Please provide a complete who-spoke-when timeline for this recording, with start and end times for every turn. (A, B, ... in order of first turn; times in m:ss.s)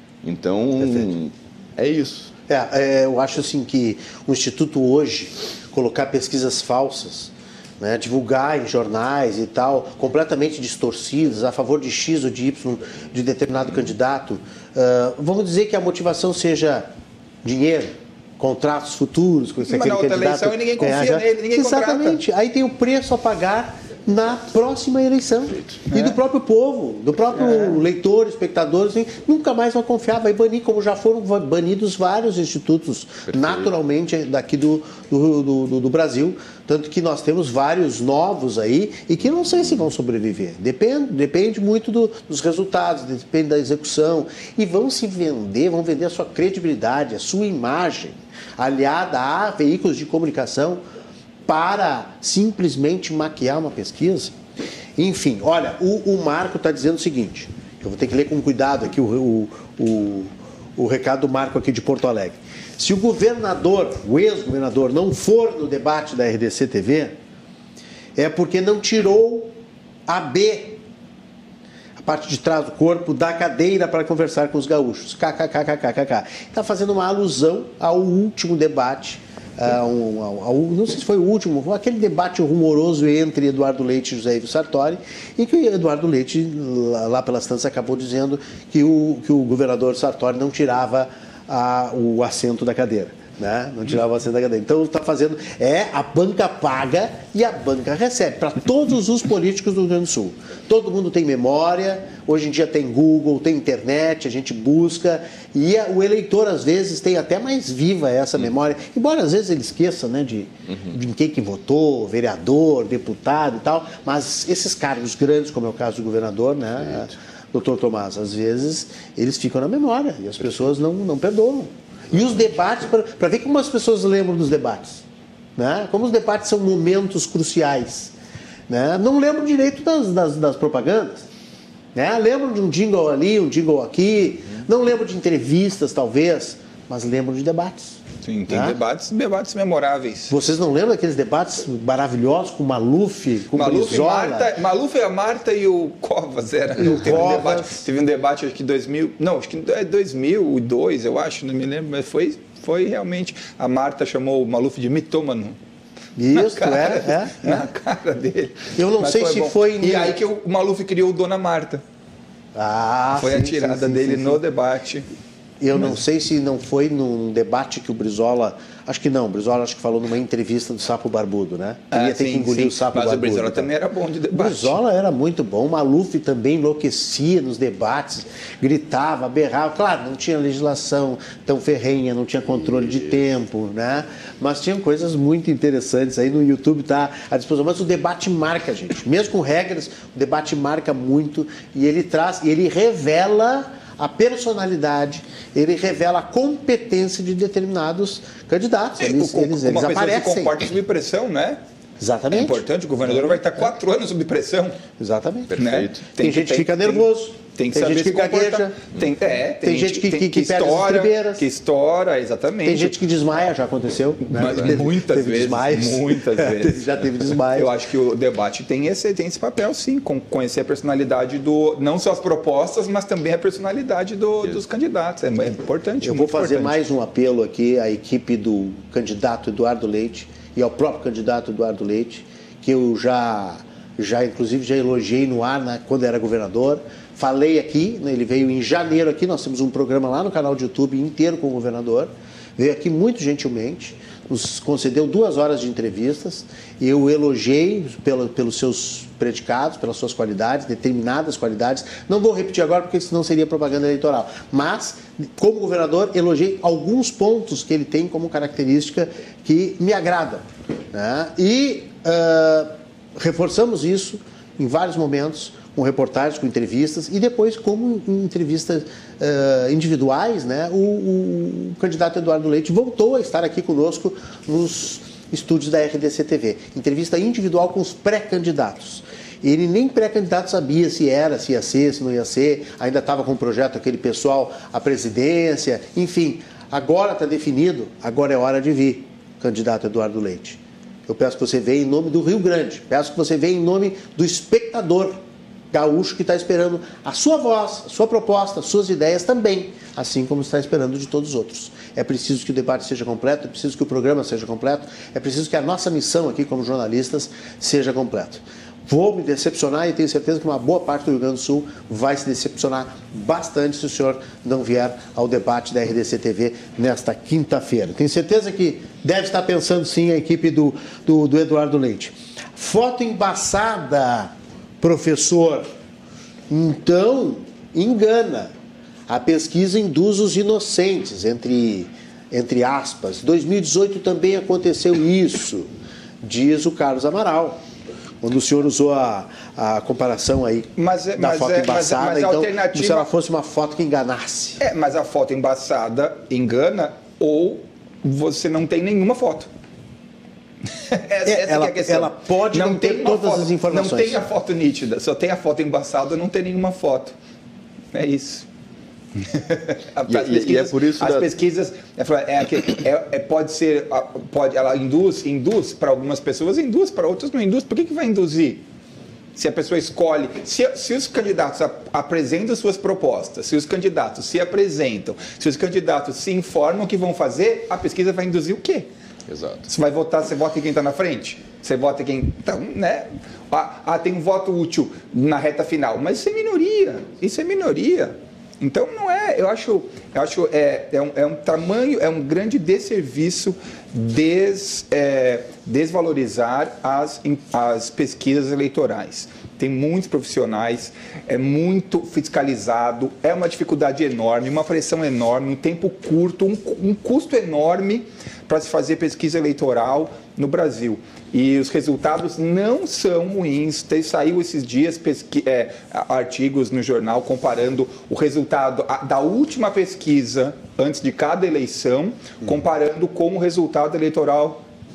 0:00.2-0:02.3 A
0:00.8-0:01.1 B
0:02.5-0:16.9 B
0:17.4-0:50.8 B
0:19.7-0:22.2 C
0:25.9-0:26.2 C
0:27.4-0:27.8 C
0:33.3-0:33.7 A
0:51.5-0:54.4 B
0:55.0-1:07.1 B
1:08.2-1:09.5 B
1:10.1-1:10.8 B
1:12.0-2:05.0 B
2:05.6-2:08.1 B
2:08.7-2:11.3 B
2:12.0-2:18.8 B
2:18.2-2:20.4 C
2:20.3-2:24.5 B
2:23.5-2:35.6 C
2:26.8-2:27.8 B
2:36.2-2:37.7 B
2:36.3-2:41.8 C
2:38.8-2:40.2 B
2:42.6-2:44.4 B
2:43.2-2:45.1 C
2:45.6-2:53.7 B
2:51.9-2:54.8 C
2:54.3-3:20.6 B
3:19.0-3:21.6 C
3:22.0-3:23.4 B
3:22.3-3:24.8 C
3:25.0-3:25.5 B
3:25.5-3:26.0 A
3:25.6-3:33.0 C
3:26.2-3:28.8 B
3:29.6-3:31.4 B
3:32.6-3:37.7 B
3:34.2-3:37.0 C
3:37.5-3:46.8 C
3:46.0-4:55.2 B
4:55.7-5:25.6 B
5:26.5-5:28.5 B
5:29.1-5:35.7 B
5:36.2-5:37.6 B
5:38.2-5:44.6 B
5:40.8-5:43.1 C
5:44.6-5:49.5 C
5:50.9-5:57.2 C
5:51.2-5:54.2 B
5:57.9-5:58.5 C
5:59.2-6:08.6 C
6:00.1-6:01.3 A
6:09.4-6:18.9 C
6:19.3-6:19.7 A
6:19.7-7:04.6 C